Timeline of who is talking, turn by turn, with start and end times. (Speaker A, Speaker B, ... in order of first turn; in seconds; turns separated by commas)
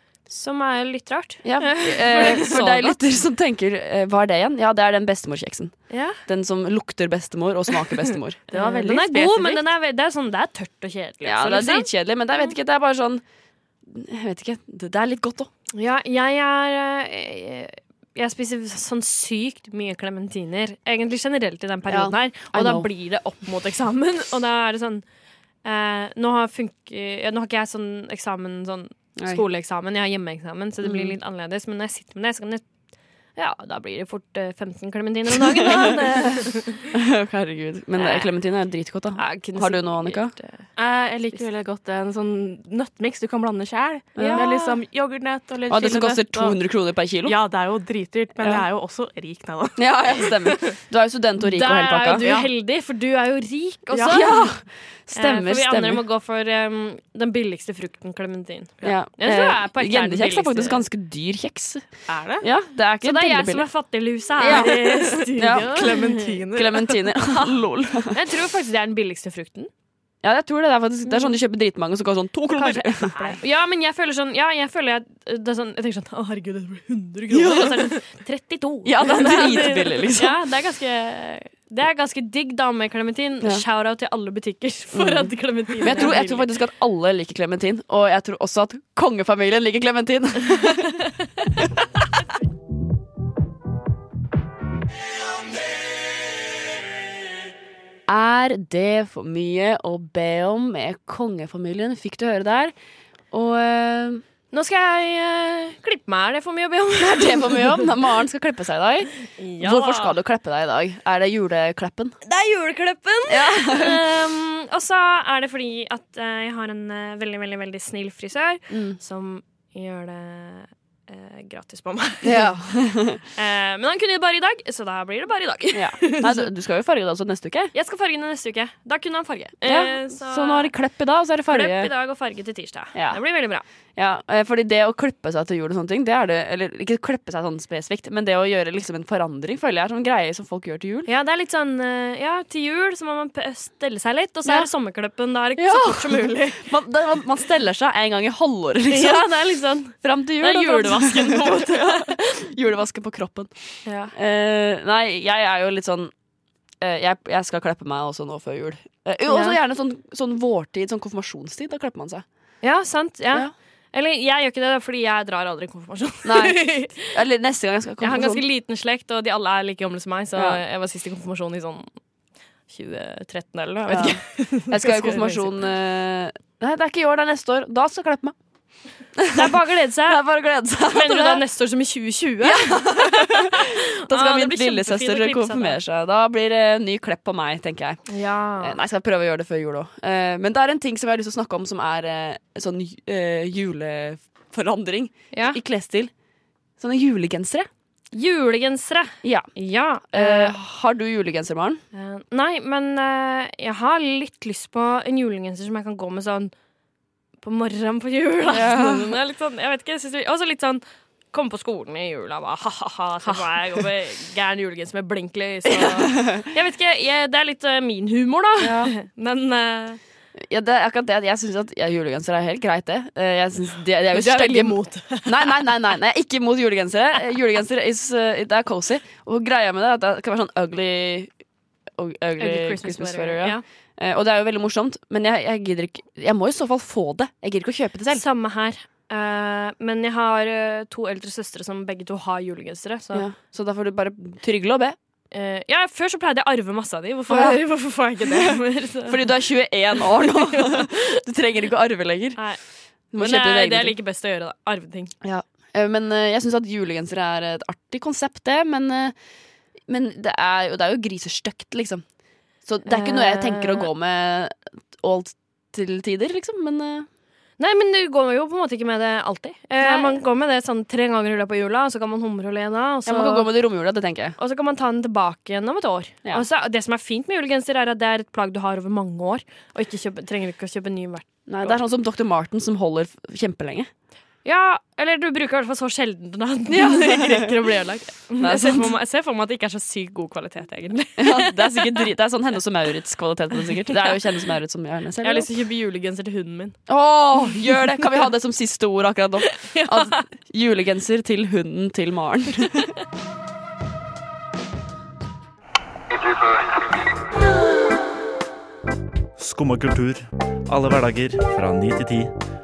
Speaker A: 0.3-3.0, Speaker B: 1.4-8.5, Speaker A: 5.9-6.2, Speaker C: 8.5-9.6, Speaker A: 8.5-12.5, Speaker B: 11.2-13.2, Speaker B: 13.8-15.5, Speaker A: 15.7-25.1, Speaker B: 21.9-22.9, Speaker A: 25.6-32.7, Speaker B: 29.1-29.4, Speaker B: 30.8-31.1, Speaker A: 33.2-36.8, Speaker B: 37.0-40.4, Speaker A: 38.0-38.3, Speaker A: 39.1-40.7, Speaker C: 40.8-50.6, Speaker B: 44.1-44.7, Speaker A: 44.2-44.6, Speaker B: 45.7-47.4, Speaker B: 49.8-52.2, Speaker A: 51.4-60.8, Speaker C: 52.2-52.5, Speaker C: 53.9-54.2, Speaker B: 54.1-56.0, Speaker B: 58.8-63.7, Speaker C: 62.1-62.5, Speaker A: 63.0-66.4, Speaker B: 64.4-68.2, Speaker C: 64.5-66.9, Speaker A: 68.1-69.7, Speaker B: 70.2-73.4, Speaker A: 71.0-71.3, Speaker A: 72.5-86.5, Speaker B: 77.3-78.0, Speaker B: 78.8-80.4, Speaker B: 84.9-91.8, Speaker B: 98.1-102.7, Speaker B: 103.3-104.2, Speaker A: 104.5-107.9, Speaker B: 107.0-112.2, Speaker A: 109.3-110.1, Speaker A: 112.2-126.5, Speaker B: 113.3-114.0, Speaker B: 118.7-119.0, Speaker B: 122.2-123.2, Speaker B: 125.7-127.7, Speaker A: 127.7-130.7, Speaker B: 129.6-131.9, Speaker A: 131.5-133.6, Speaker B: 132.9-133.3, Speaker B: 133.9-141.1, Speaker A: 141.1-146.7, Speaker B: 144.4-144.7, Speaker B: 145.6-156.1, Speaker A: 148.9-152.2, Speaker A: 153.8-154.1, Speaker B: 156.8-162.2, Speaker A: 159.3-159.6, Speaker A: 162.6-167.1, Speaker B: 166.2-168.4, Speaker A: 168.0-171.9, Speaker A: 172.7-175.6, Speaker B: 173.9-181.4, Speaker A: 179.3-180.2, Speaker A: 180.9-185.8, Speaker B: 182.4-196.1, Speaker A: 188.1-188.8, Speaker A: 195.3-195.6, Speaker B: 196.8-197.7, Speaker A: 198.1-200.6, Speaker B: 199.2-199.5, Speaker B: 200.1-201.8, Speaker A: 201.9-206.5, Speaker A: 207.4-220.0, Speaker B: 208.5-209.1, Speaker B: 213.2-213.8, Speaker B: 215.7-216.4, Speaker B: 218.6-218.9, Speaker B: 220.4-231.3, Speaker A: 224.1-225.6, Speaker B: 231.9-238.2, Speaker A: 232.4-233.6, Speaker A: 238.1-243.3, Speaker B: 243.1-244.9, Speaker A: 245.3-249.4, Speaker B: 247.3-247.6, Speaker B: 249.0-253.9, Speaker A: 250.1-251.0, Speaker A: 252.3-255.2, Speaker B: 255.2-259.2, Speaker B: 259.8-267.1, Speaker A: 262.9-263.9, Speaker A: 267.6-273.5, Speaker B: 269.8-270.2, Speaker B: 273.1-274.4, Speaker A: 274.4-281.8, Speaker B: 281.5-283.9, Speaker A: 284.4-292.0, Speaker B: 286.7-287.5, Speaker B: 288.4-288.9, Speaker B: 291.2-295.5, Speaker A: 295.2-296.9, Speaker B: 296.9-302.9, Speaker A: 299.7-300.2, Speaker D: 309.4-312.3